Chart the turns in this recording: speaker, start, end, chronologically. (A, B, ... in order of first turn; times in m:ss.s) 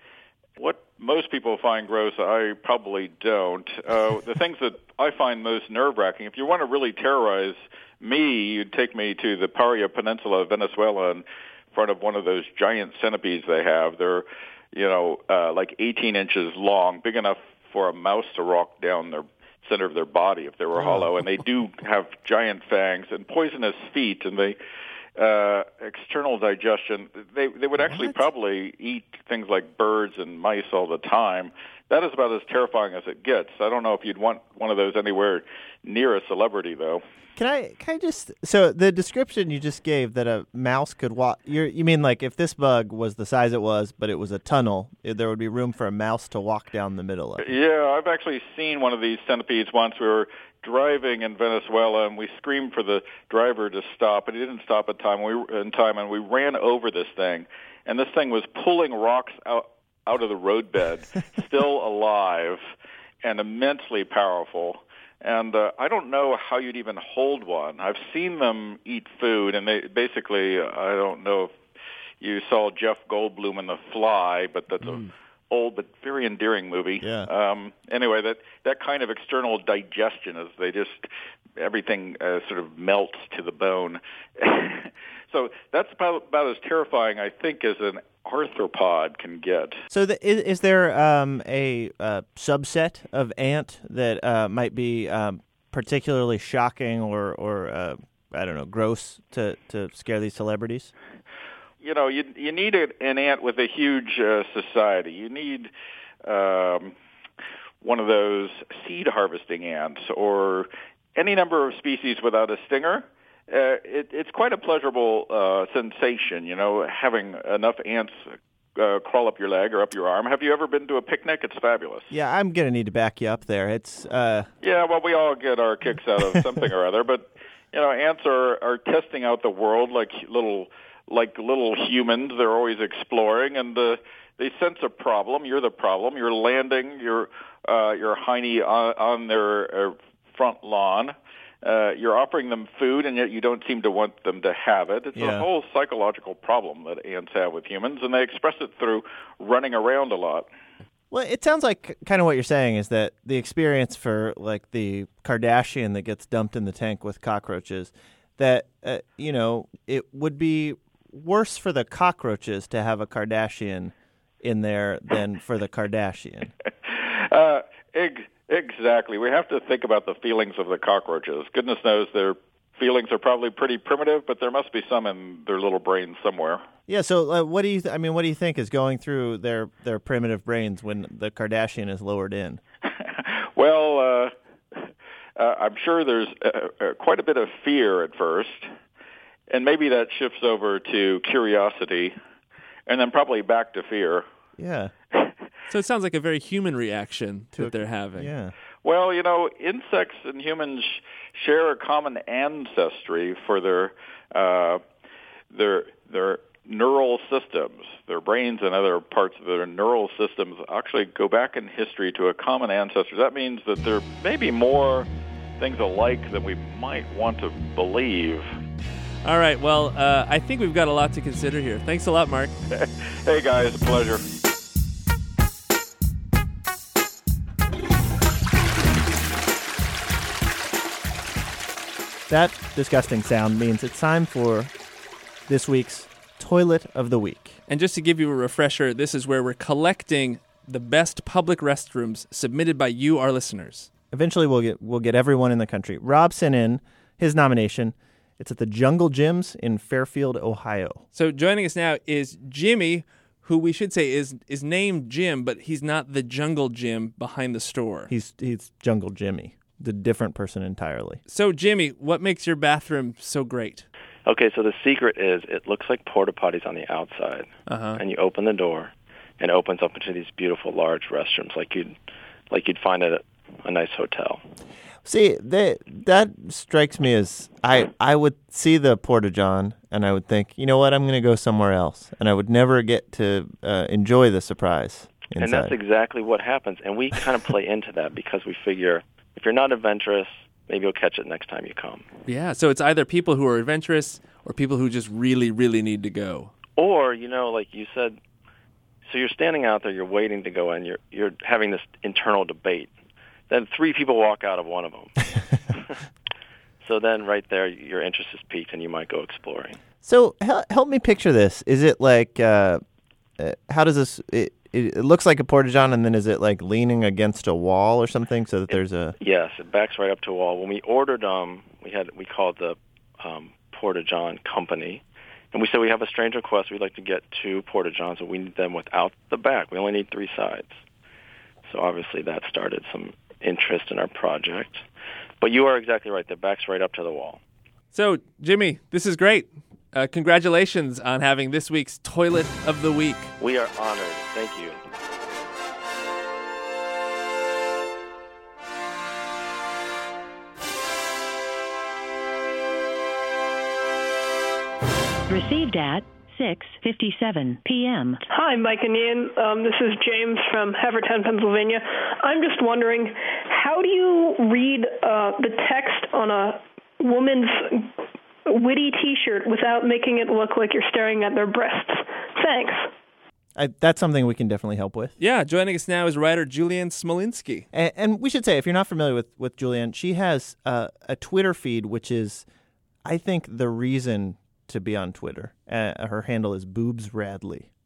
0:00.6-0:24.6 A
0:25.2-0:37.0 A
0:37.4-0:47.4 B
0:47.4-1:02.6 A
1:03.2-1:11.5 A
1:12.2-1:21.0 A
1:17.0-1:17.3 B
1:21.6-1:29.8 A
1:29.9-1:40.9 B
1:41.8-1:45.7 A
1:46.2-1:46.9 A
1:47.8-1:58.2 A
1:58.8-2:02.1 A
2:02.1-2:04.5 B
2:04.6-2:30.5 A
2:25.2-2:25.4 B
2:31.1-2:46.5 B
2:46.8-2:56.6 A
2:56.9-3:02.6 B
3:03.0-3:04.3 A
3:05.4-3:08.7 A
3:09.5-3:12.1 A
3:12.9-3:14.2 A
3:14.6-3:14.9 B
3:15.7-3:18.3 C
3:17.5-3:18.5 B
3:18.8-3:24.8 A
3:25.5-3:38.5 A
3:39.2-3:42.6 C
3:42.7-3:44.2 A
3:52.3-3:54.7 B
3:55.5-3:57.6 B
3:57.7-4:03.9 C
4:04.1-4:11.0 B
4:11.1-4:18.1 C
4:18.1-4:21.2 B
4:21.3-4:23.9 C
4:24.2-4:31.9 D
4:27.7-4:28.0 C
4:32.5-4:34.4 D
4:35.0-4:45.7 B
4:45.4-4:52.0 D
4:52.2-4:56.5 C
4:56.8-4:58.2 D
4:59.0-5:02.9 D
5:03.5-5:05.9 D
5:06.8-5:09.8 D
5:10.0-5:12.8 B
5:13.4-5:19.2 B
5:19.2-5:30.8 D
5:31.7-5:34.8 D
5:35.4-5:37.4 D
5:37.9-5:43.3 C
5:43.4-5:44.8 D
5:55.3-5:58.2 E
5:58.3-6:07.9 F
6:08.4-6:12.9 F
6:13.6-6:15.1 B
6:15.2-6:17.7 C
6:17.7-6:22.4 B
6:23.0-6:27.7 B